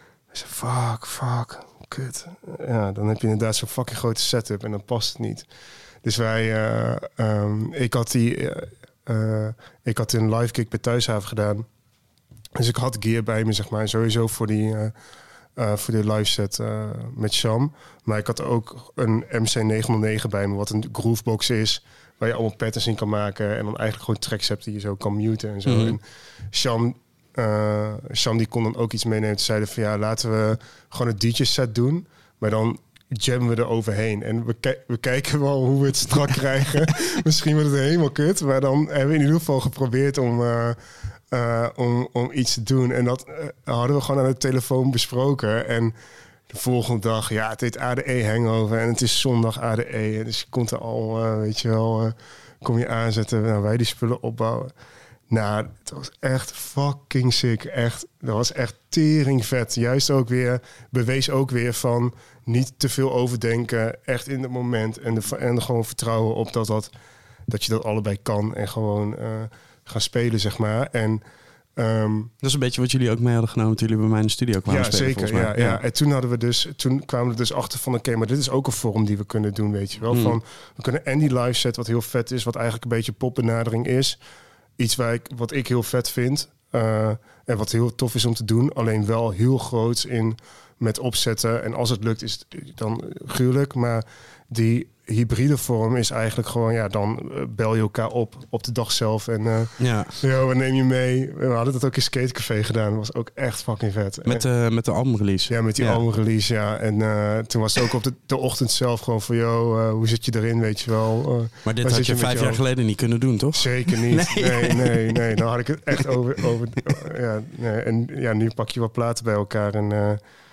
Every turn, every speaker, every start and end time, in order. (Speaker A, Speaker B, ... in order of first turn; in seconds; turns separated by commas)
Speaker A: 0.3-5.5, Speaker A: 6.0-11.7, Speaker A: 12.6-14.9, Speaker A: 15.6-40.8, Speaker B: 25.6-26.0, Speaker A: 41.3-45.9, Speaker A: 46.5-54.7, Speaker A: 55.3-66.9, Speaker A: 67.5-71.2, Speaker A: 71.8-72.3, Speaker B: 72.4-75.8, Speaker A: 74.7-84.2, Speaker B: 80.1-80.4, Speaker A: 84.8-104.5, Speaker B: 99.8-100.1, Speaker B: 104.2-106.0, Speaker A: 105.5-112.6, Speaker B: 111.6-115.2, Speaker A: 113.5-120.2